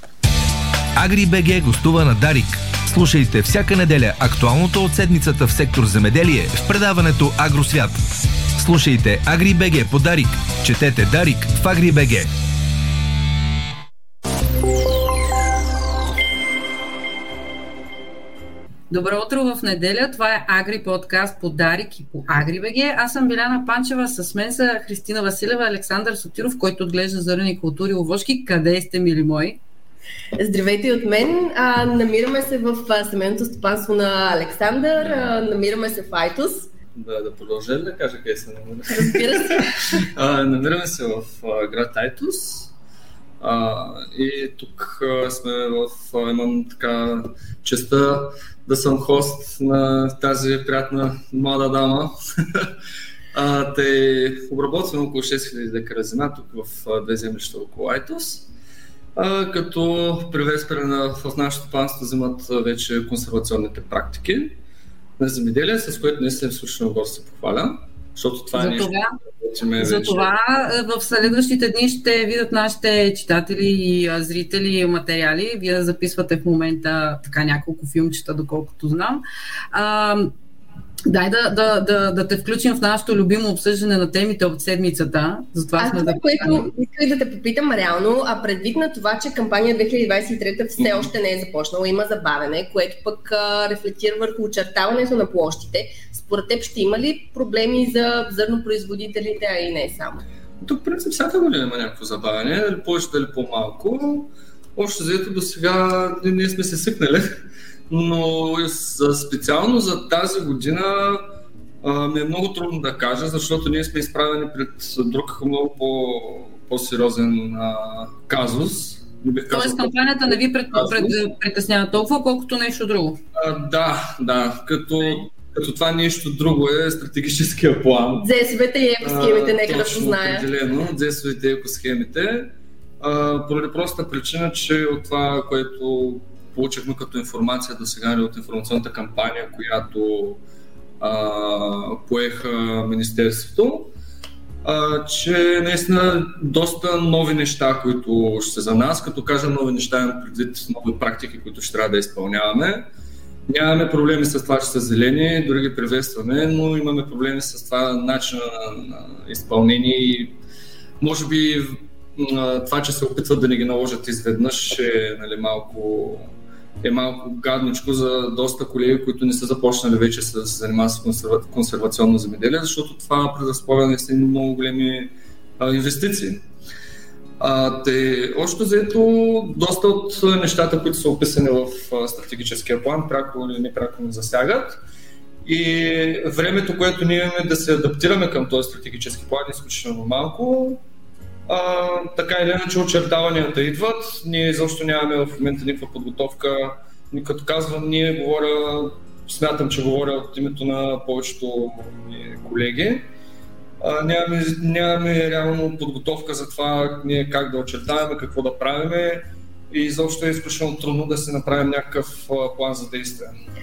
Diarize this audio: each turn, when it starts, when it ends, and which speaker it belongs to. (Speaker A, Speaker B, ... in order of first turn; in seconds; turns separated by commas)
Speaker A: 1.0-7.9, Speaker A: 8.6-12.2, Speaker B: 18.9-29.6, Speaker C: 30.4-36.7, Speaker D: 35.0-35.3, Speaker D: 36.9-39.6, Speaker C: 38.9-39.6, Speaker D: 40.1-42.7, Speaker D: 43.4-52.7, Speaker D: 53.3-58.5, Speaker D: 59.1-64.5, Speaker D: 65.2-70.3, Speaker B: 68.5-69.1, Speaker B: 69.8-79.2, Speaker B: 79.7-80.3, Speaker B: 81.1-86.7, Speaker C: 85.8-100.2, Speaker D: 90.8-91.1, Speaker D: 100.6-107.2, Speaker D: 107.9-111.2, Speaker D: 111.8-121.2, Speaker B: 119.5-123.2, Speaker D: 123.3-128.3, Speaker C: 128.2-130.4, Speaker D: 129.0-140.4, Speaker D: 141.0-143.9, Speaker D: 144.6-152.8, Speaker D: 153.5-160.3, Speaker D: 161.0-166.3, Speaker D: 166.8-176.4, Speaker D: 177.4-184.8, Speaker D: 185.4-190.8, Speaker D: 191.5-203.1, Speaker D: 203.8-213.3